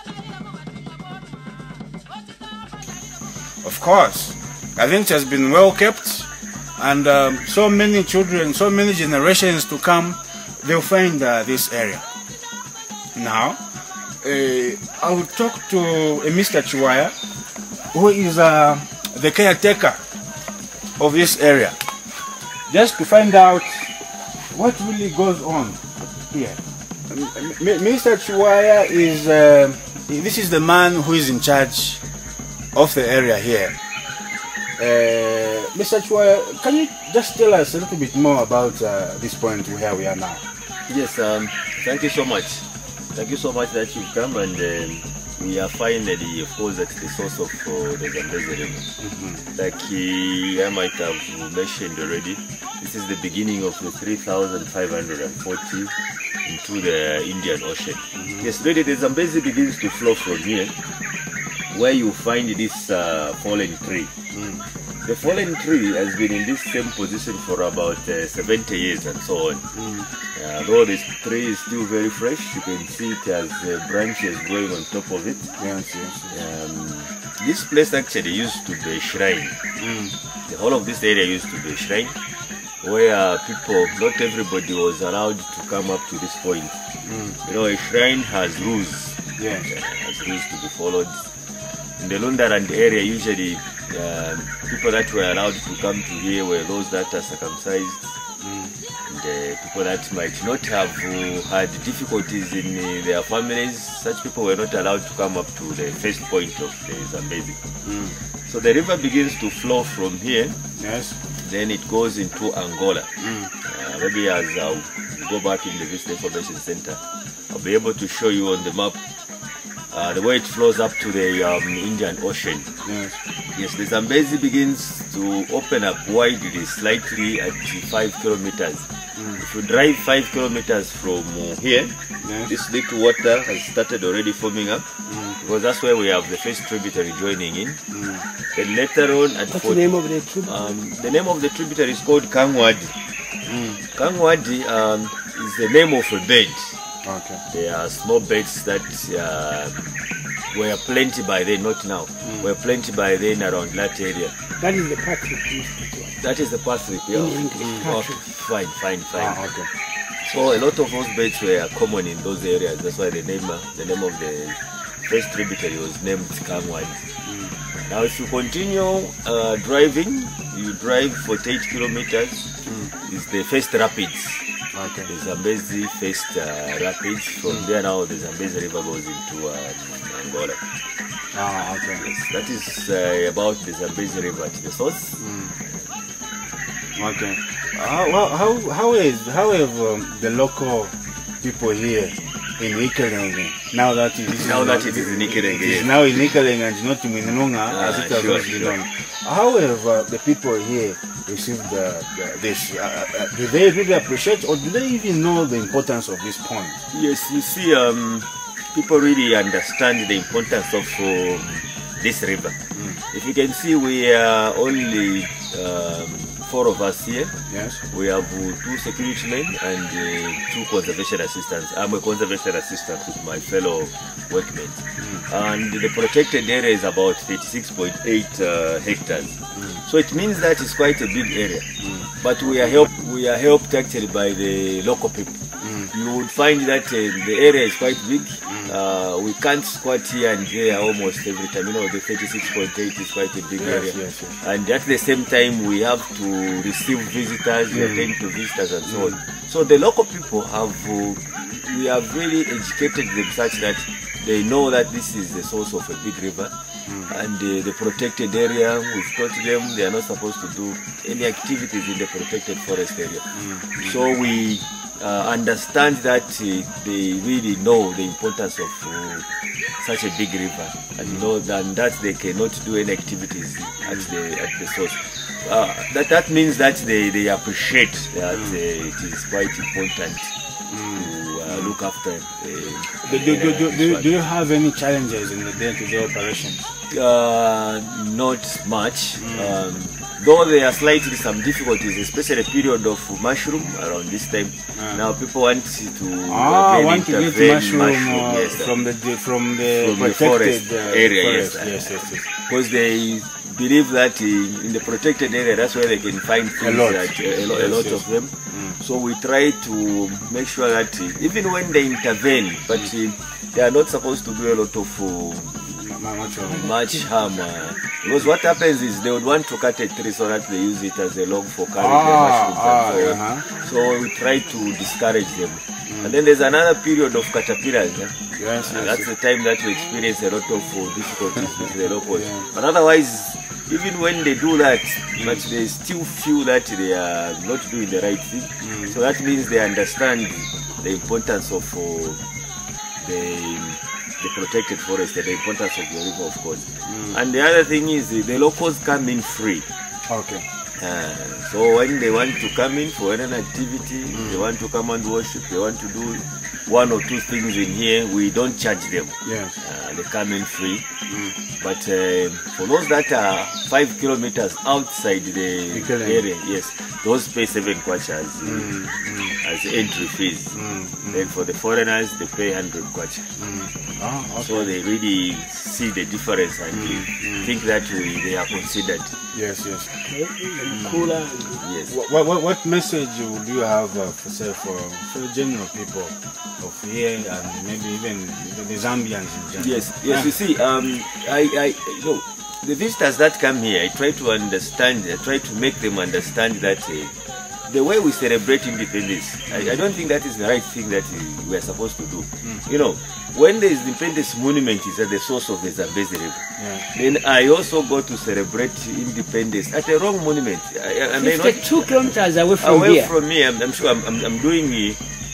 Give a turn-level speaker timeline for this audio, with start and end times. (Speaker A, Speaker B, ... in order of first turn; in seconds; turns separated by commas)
Speaker A: 3.6-12.0, Speaker A: 13.1-13.6, Speaker A: 14.2-17.1, Speaker A: 17.9-20.0, Speaker A: 21.0-21.8, Speaker A: 22.7-23.9, Speaker A: 24.5-25.8, Speaker A: 26.3-32.0, Speaker A: 32.7-33.7, Speaker A: 34.8-40.4, Speaker B: 40.9-48.9, Speaker A: 49.0-49.4, Speaker B: 49.5-60.7, Speaker A: 58.2-58.5, Speaker B: 61.7-64.1, Speaker A: 64.3-64.6, Speaker B: 65.0-69.7, Speaker A: 69.7-70.1, Speaker B: 70.3-75.5, Speaker A: 75.6-76.3, Speaker B: 76.3-79.6, Speaker A: 79.8-80.1, Speaker B: 80.4-82.2, Speaker B: 82.8-86.8, Speaker A: 87.0-87.4, Speaker B: 87.5-91.3, Speaker A: 89.4-89.7, Speaker B: 92.0-98.2, Speaker A: 98.4-98.7, Speaker B: 99.0-107.6, Speaker A: 107.8-108.2, Speaker B: 108.5-110.6, Speaker A: 110.8-111.2, Speaker B: 111.4-113.1, Speaker A: 113.2-113.5, Speaker B: 113.6-117.0, Speaker B: 117.5-119.0, Speaker B: 119.9-122.7, Speaker A: 122.8-123.2, Speaker B: 123.5-137.8, Speaker A: 129.2-129.4, Speaker A: 132.2-132.5, Speaker A: 135.1-135.3, Speaker A: 137.9-138.2, Speaker B: 138.5-139.9, Speaker C: 139.5-140.7, Speaker B: 140.4-142.9, Speaker A: 143.4-143.8, Speaker B: 143.9-146.8, Speaker A: 147.0-147.4, Speaker B: 147.5-149.9, Speaker B: 150.5-154.3, Speaker A: 152.2-152.5, Speaker C: 154.6-156.2, Speaker B: 156.2-159.4, Speaker C: 157.1-158.2, Speaker A: 159.2-159.7, Speaker B: 160.2-167.1, Speaker A: 167.2-167.6, Speaker B: 167.7-172.5, Speaker A: 172.7-172.9, Speaker B: 173.0-174.4, Speaker A: 174.7-175.1, Speaker B: 175.1-180.6, Speaker A: 181.3-182.0, Speaker B: 182.0-185.2, Speaker A: 185.2-185.6, Speaker A: 186.9-206.8, Speaker B: 194.3-196.0, Speaker B: 197.7-198.8, Speaker B: 206.9-212.6, Speaker A: 212.7-213.0, Speaker B: 213.1-217.4, Speaker A: 217.5-217.8, Speaker B: 217.9-231.7, Speaker A: 225.0-225.2, Speaker A: 229.6-229.8, Speaker A: 231.8-232.8, Speaker B: 232.2-235.4, Speaker A: 235.6-235.9, Speaker B: 235.9-256.5, Speaker A: 238.5-238.7, Speaker A: 243.6-244.4, Speaker A: 247.7-248.1, Speaker A: 248.9-249.2, Speaker A: 256.9-257.1, Speaker B: 257.1-269.2, Speaker A: 263.3-264.0, Speaker B: 269.8-284.1, Speaker A: 280.7-281.7, Speaker A: 283.0-286.7, Speaker B: 286.9-298.7, Speaker A: 289.2-289.6, Speaker A: 294.8-295.0, Speaker A: 296.3-302.2, Speaker B: 299.8-315.6, Speaker A: 306.6-308.8, Speaker A: 315.6-316.7, Speaker C: 316.5-317.1, Speaker B: 316.5-342.2, Speaker A: 321.8-323.5, Speaker A: 325.9-326.1, Speaker A: 328.3-329.1, Speaker A: 332.1-332.5, Speaker A: 338.6-339.0, Speaker B: 343.0-349.6, Speaker A: 346.9-347.2, Speaker A: 350.1-350.4, Speaker B: 350.8-360.8, Speaker A: 354.1-354.4, Speaker A: 359.2-359.5, Speaker A: 361.1-361.4, Speaker B: 361.6-368.8, Speaker A: 365.7-366.2, Speaker A: 368.4-369.4, Speaker B: 369.4-370.6, Speaker A: 370.5-371.3, Speaker B: 371.1-373.3, Speaker A: 373.4-374.7, Speaker B: 374.4-379.2, Speaker A: 376.7-377.5, Speaker A: 379.3-379.9, Speaker C: 380.0-381.6, Speaker A: 380.7-381.1, Speaker B: 381.6-381.9, Speaker A: 381.9-390.3, Speaker B: 389.6-397.1, Speaker B: 397.7-415.0, Speaker A: 406.6-406.9, Speaker C: 411.1-413.1